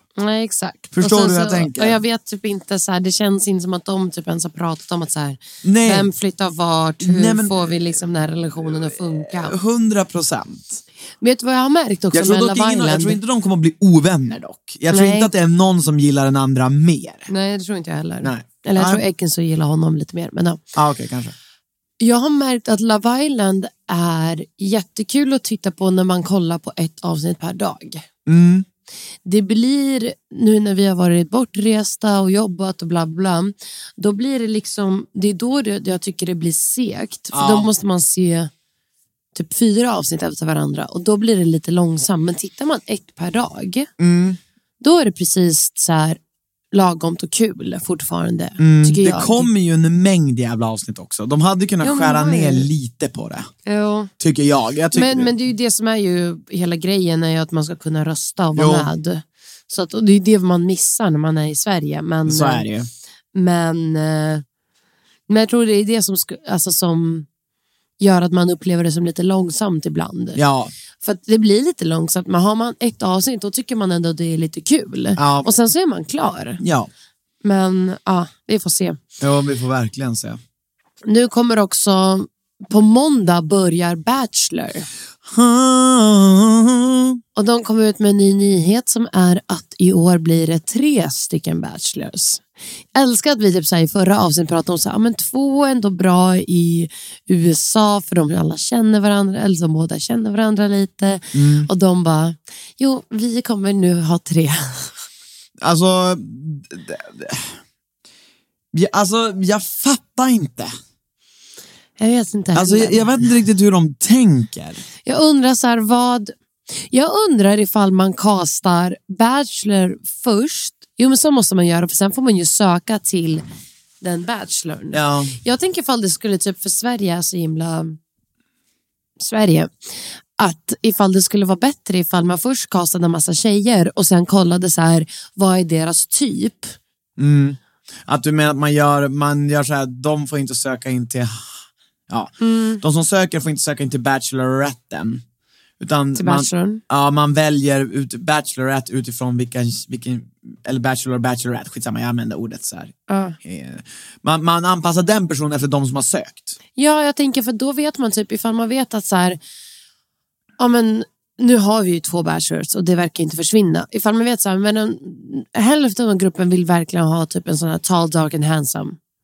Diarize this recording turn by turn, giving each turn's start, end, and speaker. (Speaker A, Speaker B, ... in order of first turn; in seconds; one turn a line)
Speaker A: 0.2-9.5
Speaker B: 0.9-2.0
Speaker B: 5.6-6.1
Speaker B: 7.0-7.9
Speaker B: 8.6-10.8
Speaker A: 11.2-13.2
Speaker B: 12.1-17.3
Speaker A: 14.9-15.3
Speaker A: 17.3-20.6
Speaker B: 18.2-19.0
Speaker B: 20.7-21.3
Speaker A: 22.0-28.0
Speaker B: 28.2-28.6
Speaker A: 29.2-38.5
Speaker B: 37.3-37.7
Speaker A: 39.3-43.9
Speaker B: 44.0-44.4
Speaker A: 44.8-46.2
Speaker A: 46.7-49.5
Speaker B: 48.6-53.5
Speaker A: 51.8-52.7
Speaker A: 53.6-54.1
Speaker B: 54.2-55.3
Speaker A: 54.9-62.6
Speaker B: 58.5-58.9
Speaker B: 62.2-62.9
Speaker A: 63.3-64.4
Speaker A: 65.3-67.3
Speaker A: 68.0-70.4
Speaker B: 70.3-70.7
Speaker A: 71.0-76.6
Speaker B: 75.2-75.5
Speaker B: 76.6-76.9
Speaker A: 77.4-79.0
Speaker B: 79.2-80.4
Speaker A: 81.0-84.9
Speaker B: 85.2-87.2
Speaker A: 87.3-92.4
Speaker A: 92.9-104.9
Speaker B: 101.3-101.7
Speaker B: 105.6-107.6
Speaker B: 108.7-110.7
Speaker A: 112.0-113.1
Speaker B: 112.5-114.8
Speaker A: 115.0-123.4
Speaker A: 124.0-128.0
Speaker B: 124.9-125.3
Speaker A: 129.2-129.7
Speaker A: 130.4-136.7
Speaker B: 137.2-145.2
Speaker A: 142.4-142.8
Speaker B: 145.8-156.6
Speaker A: 146.1-146.8
Speaker A: 153.1-153.3
Speaker A: 156.8-159.4
Speaker A: 160.6-169.0